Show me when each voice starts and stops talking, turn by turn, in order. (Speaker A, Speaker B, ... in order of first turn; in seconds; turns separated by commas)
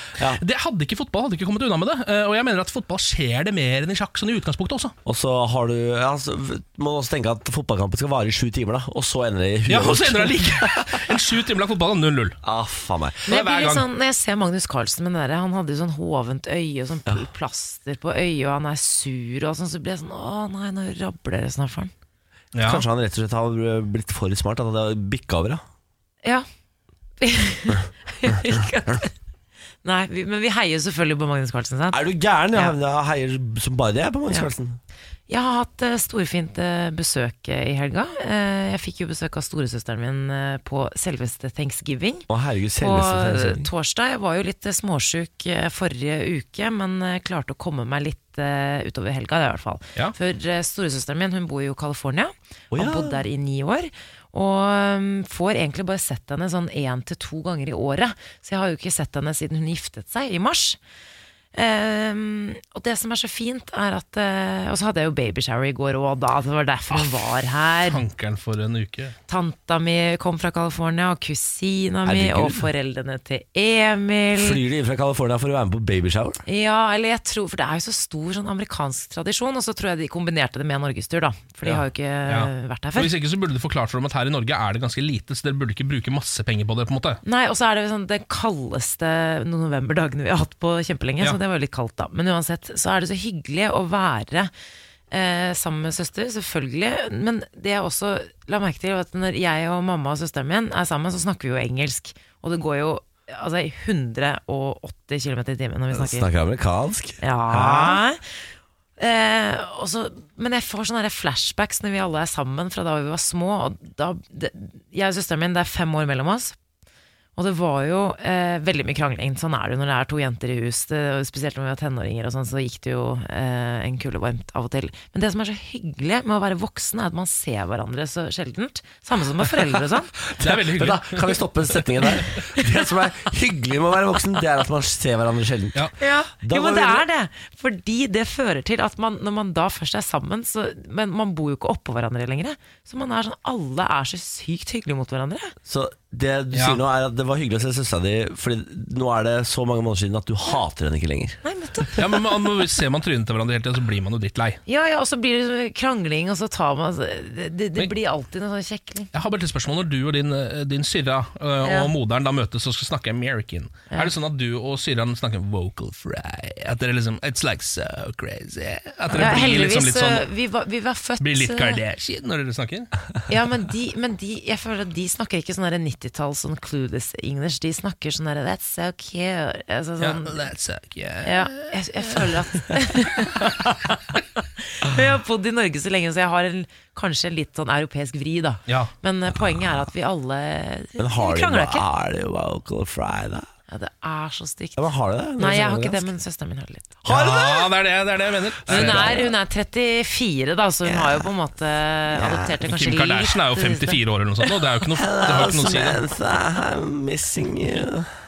Speaker A: 0.4-4.9, Speaker B: 5.0-10.9, Speaker A: 9.7-12.4, Speaker B: 12.4-13.2, Speaker A: 13.3-13.8, Speaker C: 13.3-21.9, Speaker A: 22.5-22.8, Speaker B: 22.6-25.6, Speaker C: 27.2-29.1, Speaker C: 29.8-32.7, Speaker B: 31.9-34.8, Speaker C: 35.3-42.2, Speaker B: 42.3-43.7, Speaker C: 42.8-60.8, Speaker B: 52.7-53.2, Speaker C: 61.5-68.0, Speaker A: 66.9-67.2, Speaker A: 67.9-69.2, Speaker C: 69.3-74.6, Speaker B: 72.0-72.7, Speaker B: 74.4-76.4, Speaker C: 76.5-83.1, Speaker A: 82.3-87.2, Speaker C: 87.2-94.5, Speaker C: 95.1-106.3, Speaker B: 105.9-108.0, Speaker C: 107.2-108.2, Speaker C: 109.0-116.5, Speaker C: 117.3-130.1, Speaker B: 130.4-135.8, Speaker A: 130.4-131.4, Speaker C: 136.0-145.5, Speaker B: 136.4-137.0, Speaker B: 145.6-151.4, Speaker A: 146.5-146.8, Speaker C: 151.4-152.0, Speaker A: 151.9-154.6, Speaker C: 154.7-159.1, Speaker A: 159.1-170.3, Speaker C: 161.6-161.9, Speaker C: 169.1-171.8, Speaker A: 171.2-172.9, Speaker C: 173.3-180.3, Speaker A: 180.0-182.4, Speaker C: 181.2-183.9, Speaker C: 184.8-191.8, Speaker B: 191.0-193.4, Speaker C: 193.7-196.9, Speaker B: 194.8-196.1, Speaker B: 197.0-197.7, Speaker A: 197.1-199.3, Speaker B: 198.6-199.3, Speaker C: 198.7-204.0, Speaker B: 200.8-201.3, Speaker B: 202.1-202.5, Speaker A: 202.6-206.0, Speaker B: 204.9-208.1